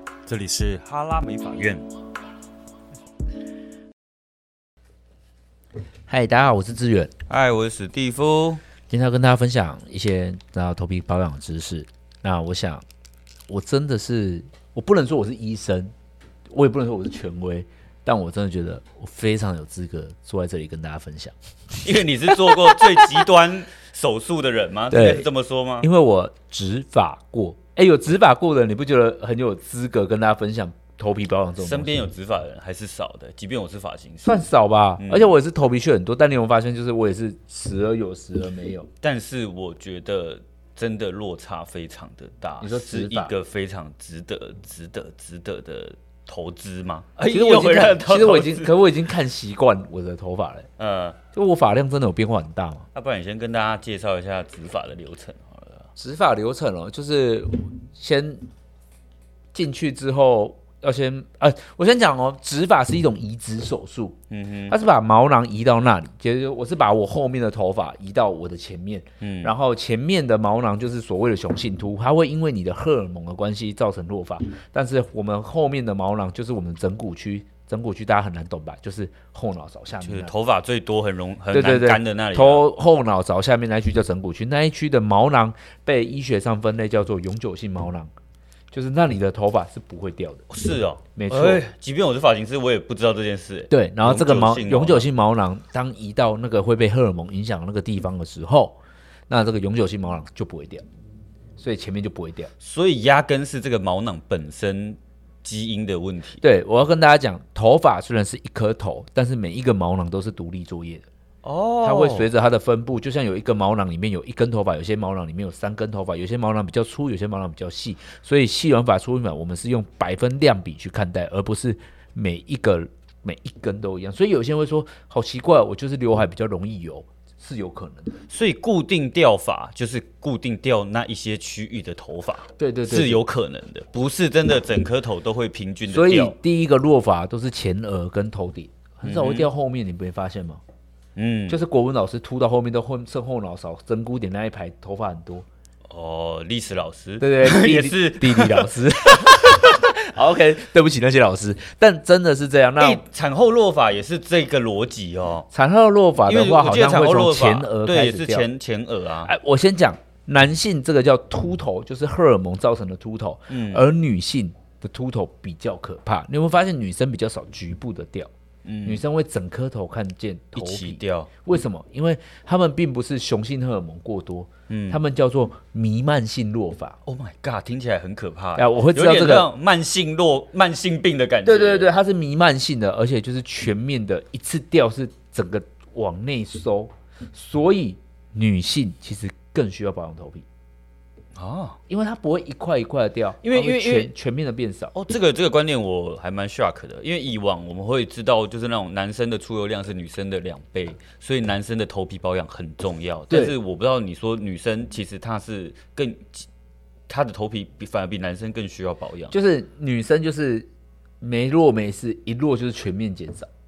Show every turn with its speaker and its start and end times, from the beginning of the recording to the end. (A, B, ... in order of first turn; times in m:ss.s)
0:00.2-0:01.8 A
0:06.1-0:07.1 B
0:07.3-0:08.6 A
0:08.9-0:12.8 B
0:13.5-0:15.9 B
0:16.5-0:21.3 B
0:21.8-0:25.9 A
0:22.3-0:23.1 B
0:24.9-0:25.3 B
0:25.8-0:32.1 B
0:31.6-0:34.4 A
0:34.2-0:38.9 B
0:35.0-0:35.3 A
0:39.0-0:48.7 A
0:42.6-0:43.3 B
0:47.3-0:50.7 B
0:50.8-0:51.2 A
0:51.3-0:52.8 B
0:52.9-0:55.9 A
0:56.0-0:58.4 B
0:59.5-1:04.2 B
1:04.3-1:04.7 A
1:04.7-1:20.3 B
1:09.2-1:09.5 A
1:20.0-1:22.6 A
1:21.5-1:28.1 B
1:28.7-1:30.5 B
1:30.5-1:35.1 A
1:31.1-1:31.6 B
1:33.7-1:38.8 B
1:39.3-1:40.8 B
1:41.6-1:42.5 B
1:42.6-1:46.4 A
1:46.4-1:51.1 B
1:51.4-1:52.3 A
1:51.8-2:08.2 B
2:08.3-2:16.3 A
2:12.6-2:13.2 B
2:15.9-2:20.6 B
2:19.0-2:19.5 A
2:21.2-2:21.6 A
2:21.5-2:25.4 B
2:25.9-2:29.7 A
2:27.2-2:33.0 B
2:32.8-2:35.5 A
2:35.5-2:38.5 B
2:36.2-2:39.3 A
2:39.2-2:48.3 B
2:43.5-2:43.8 A
2:48.6-2:49.0 A
2:48.8-2:57.0 B
2:50.6-2:51.3 A
2:54.7-2:55.0 A
2:57.0-3:01.9 A
2:58.6-2:59.5 B
3:01.4-3:10.4 B
3:11.3-3:11.8 A
3:11.9-3:14.9 B
3:13.4-3:14.1 A
3:14.9-3:26.5 A
3:23.3-3:23.6 B
3:27.1-3:29.3 A
3:29.3-3:30.7 B
3:31.2-3:33.5 B